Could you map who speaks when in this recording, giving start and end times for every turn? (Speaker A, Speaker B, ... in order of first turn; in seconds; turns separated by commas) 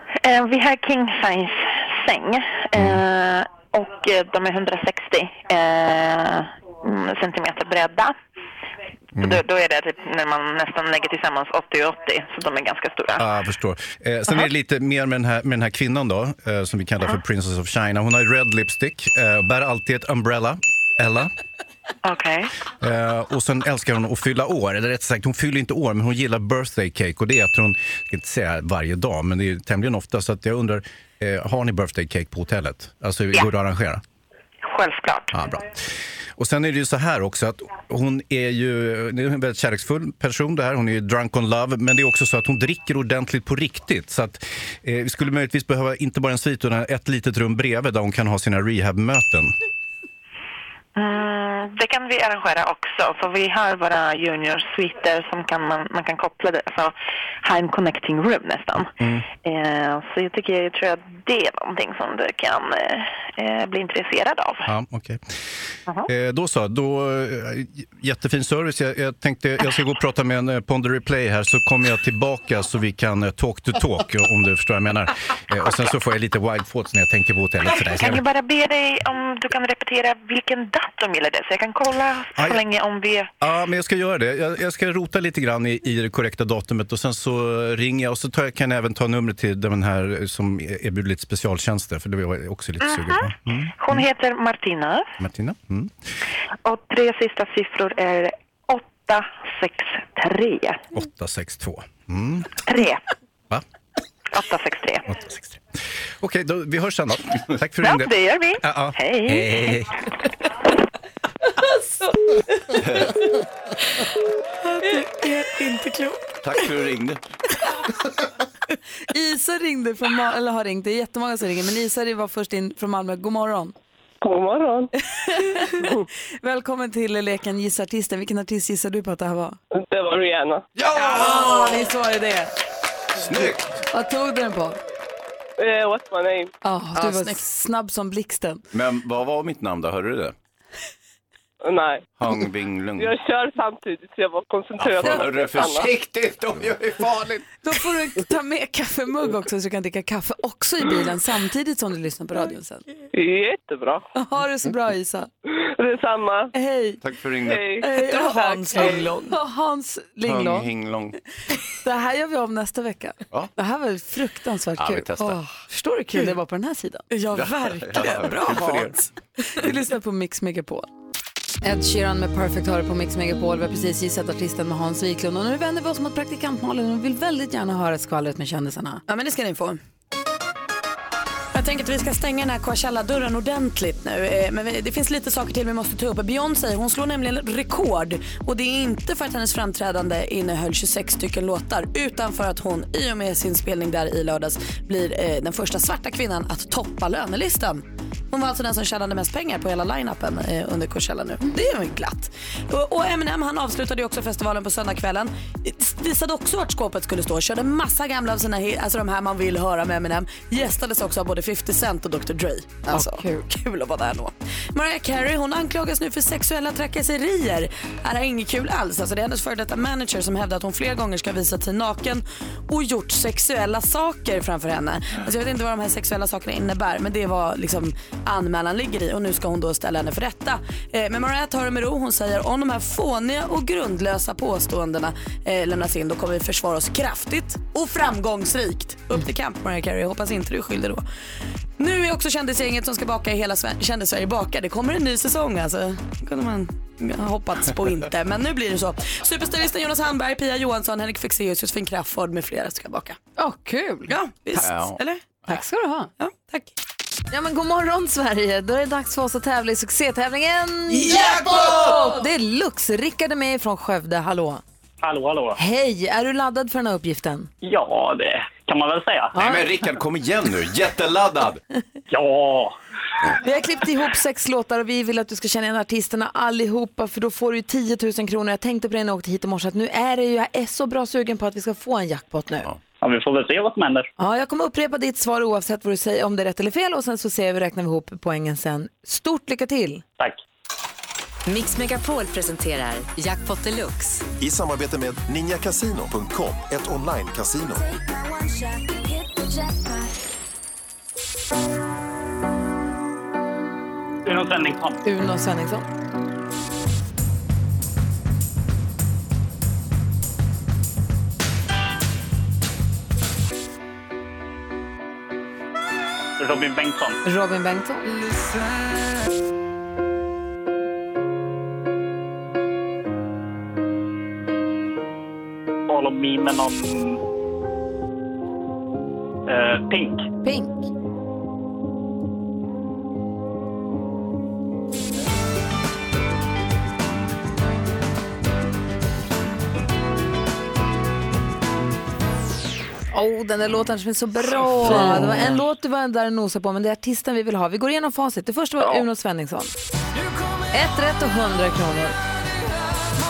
Speaker A: 0.2-8.1, Speaker B: 2.8-3.0, Speaker B: 9.2-9.4, Speaker A: 9.2-13.2, Speaker B: 13.2-21.3, Speaker A: 22.0-22.5, Speaker B: 22.8-34.0, Speaker A: 34.6-35.3, Speaker B: 35.3-49.5, Speaker A: 51.0-64.7, Speaker B: 59.0-59.3, Speaker B: 64.7-65.3, Speaker B: 66.1-78.2, Speaker A: 78.0-83.3, Speaker B: 83.4-94.0, Speaker A: 92.8-95.1, Speaker B: 95.2-95.9, Speaker A: 96.6-100.8, Speaker B: 100.9-102.6, Speaker A: 102.6-103.0, Speaker A: 104.3-105.1, Speaker B: 105.1-105.6, Speaker B: 106.2-110.0, Speaker A: 107.8-109.7, Speaker B: 112.8-113.1, Speaker C: 114.6-116.3, Speaker B: 116.4-117.2, Speaker D: 119.1-123.7, Speaker E: 124.2-124.9, Speaker D: 125.1-125.9, Speaker E: 125.8-126.0, Speaker D: 126.4-129.6, Speaker E: 129.7-130.6, Speaker B: 130.8-131.8, Speaker D: 130.9-132.5, Speaker B: 133.1-133.8, Speaker D: 133.9-134.8, Speaker E: 135.6-136.5, Speaker D: 136.6-138.6, Speaker C: 136.9-137.4, Speaker B: 138.7-140.3, Speaker E: 141.6-142.1, Speaker B: 142.2-143.1, Speaker E: 143.0-145.9, Speaker B: 144.8-147.5, Speaker D: 147.6-152.8, Speaker E: 153.1-154.1, Speaker D: 154.1-155.3, Speaker E: 155.6-156.5, Speaker D: 156.5-157.0, Speaker B: 157.0-157.7, Speaker E: 157.4-157.9, Speaker D: 157.8-160.7, Speaker C: 157.9-159.3, Speaker B: 160.2-161.2, Speaker D: 161.8-167.0, Speaker B: 164.8-165.4, Speaker C: 167.1-169.1, Speaker B: 167.3-169.0, Speaker D: 169.5-170.9, Speaker D: 171.6-179.0, Speaker C: 179.1-179.8, Speaker C: 181.5-241.0, Speaker D: 212.9-213.4, Speaker C: 241.8-253.2, Speaker D: 253.4-254.6, Speaker C: 254.1-255.2, Speaker B: 254.6-255.0, Speaker D: 255.5-256.1, Speaker C: 256.2-256.7, Speaker D: 257.3-264.6, Speaker B: 261.0-261.9, Speaker F: 265.0-265.6, Speaker D: 265.6-267.5, Speaker F: 267.6-269.4, Speaker D: 269.3-269.7, Speaker B: 269.4-271.6, Speaker F: 272.1-272.8, Speaker D: 273.4-282.7, Speaker F: 283.0-284.1, Speaker D: 284.2-290.0, Speaker G: 291.5-294.2, Speaker H: 294.4-297.9, Speaker F: 304.2-305.0, Speaker D: 305.0-305.9, Speaker F: 316.4-317.2, Speaker D: 317.2-318.1, Speaker F: 325.9-327.2, Speaker F: 329.5-330.2, Speaker D: 330.4-330.9, Speaker D: 343.1-349.7, Speaker C: 344.8-345.6, Speaker D: 350.7-352.1